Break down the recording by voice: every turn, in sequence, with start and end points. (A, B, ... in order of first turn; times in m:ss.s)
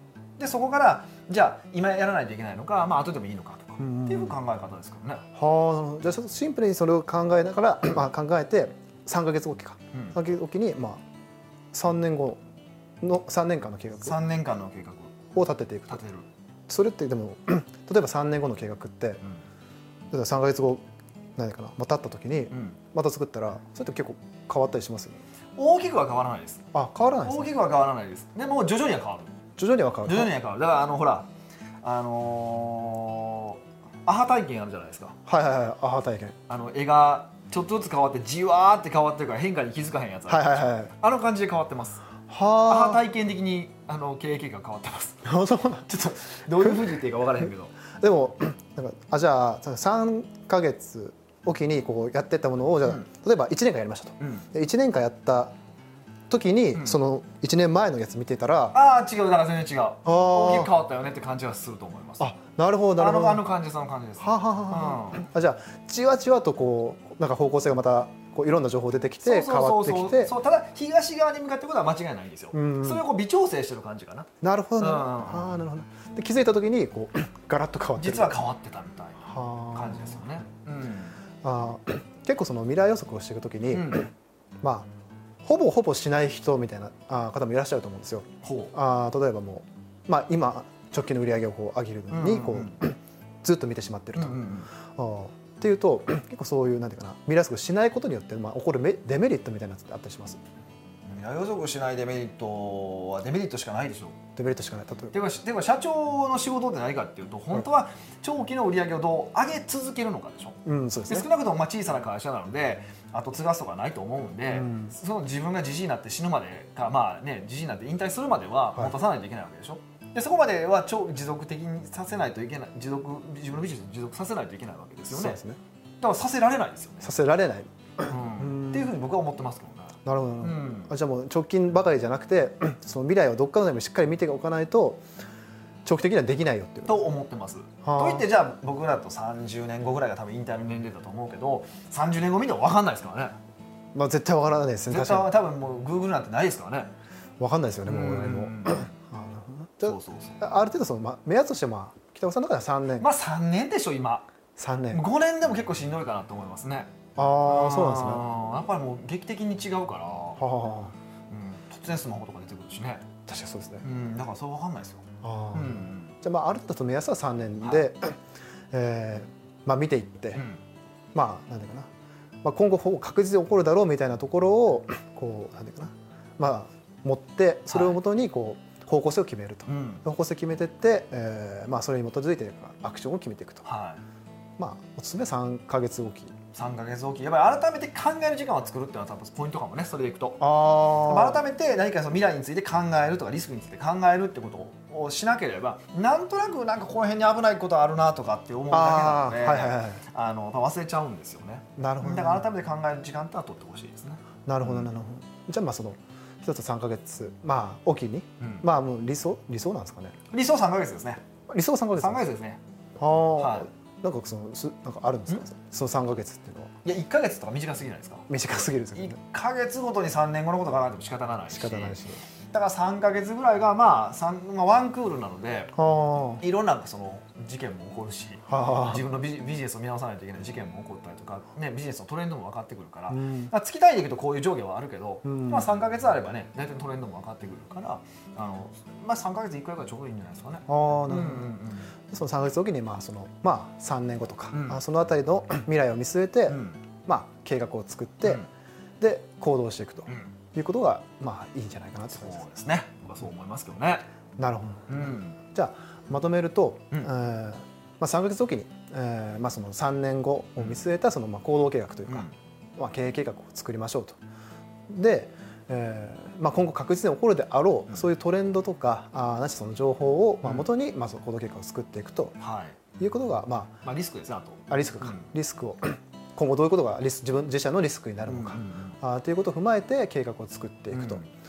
0:00.4-0:05.2 A
0:03.8-0:04.4 B
0:05.3-0:11.0 B
0:11.7-0:12.4 B
0:13.0-0:14.2 B
0:14.0-0:15.1 A
0:15.3-0:16.0 B
0:15.9-0:16.3 A
0:16.7-0:19.2 B
0:20.1-0:20.8 B
0:21.4-0:25.2 B
0:22.5-0:22.8 A
0:25.6-0:26.6 A
0:26.7-0:27.6 B
0:27.2-0:29.3 A
0:29.6-0:30.3 B
0:30.0-0:31.3 A
0:31.8-0:35.1 A
0:35.3-0:36.4 B
0:36.5-0:42.0 A
0:40.3-0:40.9 B
0:42.3-0:43.1 B
0:42.6-0:45.2 A
0:45.2-0:46.0 B
0:45.9-0:47.7 A
0:46.5-0:46.9 B
0:48.0-0:55.5 B
0:54.2-0:54.5 A
0:56.3-0:58.8 B
0:58.7-1:02.3 A
1:00.0-1:00.7 B
1:02.2-1:03.4 B
1:03.0-1:05.2 A
1:04.2-1:10.3 B
1:09.2-1:14.3 A
1:12.5-1:13.0 B
1:14.4-1:18.3 B
1:14.8-1:15.6 A
1:18.0-1:21.2 A
1:19.2-1:20.3 B
1:21.4-1:24.1 B
1:23.7-1:24.1 A
1:24.6-1:24.9 B
1:25.4-1:40.4 B
1:28.4-1:28.7 A
1:32.1-1:32.8 A
1:34.2-1:34.7 A
1:41.0-1:44.2 A
1:44.4-1:45.2 B
1:45.1-2:05.4 A
1:50.6-1:51.3 B
1:54.5-1:54.9 B
2:05.1-2:05.6 B
2:06.0-2:07.1 A
2:07.0-2:08.9 B
2:08.1-2:10.9 A
2:10.0-2:15.0 B
2:15.8-2:17.1 B
2:16.9-2:23.3 A
2:17.8-2:18.3 B
2:23.9-2:25.3 B
2:24.9-2:26.9 A
2:27.4-2:33.1 B
2:27.8-2:28.9 A
2:29.8-2:30.4 A
2:33.0-2:34.3 A
2:34.6-2:35.0 B
2:34.9-2:36.9 A
2:37.2-2:38.2 B
2:37.4-2:40.4 A
2:40.4-2:40.9 B
2:41.3-2:43.1 A
2:43.3-2:43.8 B
2:43.8-2:46.1 A
2:45.2-2:48.2 B
2:48.7-2:50.4 B
2:51.1-2:51.9 B
2:52.4-3:03.6 B
2:57.7-2:58.0 A
2:59.7-3:00.0 A
3:03.6-3:04.0 A
3:04.6-3:06.3 B
3:06.5-3:24.9 A
3:10.4-3:11.4 B
3:18.7-3:20.0 B
3:21.8-3:22.4 B
3:24.4-3:30.2 B
3:28.4-3:28.6 A
3:30.3-3:31.2 A
3:31.5-3:32.2 B
3:32.0-3:32.6 A
3:33.0-3:36.7 B
3:33.4-3:33.7 A
3:36.8-3:38.3 A
3:38.3-3:39.2 B
3:38.9-3:42.0 A
3:41.5-3:42.2 B
3:42.5-3:45.7 A
3:45.8-3:46.4 B
3:46.4-4:01.9 A
3:48.5-3:49.0 B
3:53.1-3:53.5 B
3:55.2-3:55.7 B
4:00.7-4:01.6 B
4:02.1-4:08.4 B
4:04.5-4:04.8 A
4:06.5-4:06.8 A
4:09.0-4:12.4 B
4:12.1-4:14.0 A
4:14.4-4:24.2 B
4:14.9-4:15.4 A
4:20.6-4:20.8 A
4:22.1-4:22.3 A
4:24.9-4:32.3 B
4:30.4-4:30.7 A
4:32.4-4:32.8 A
4:33.0-4:33.7 B
4:33.8-4:35.3 A
4:34.7-4:41.2 B
4:38.2-4:39.0 A
4:40.9-4:41.2 A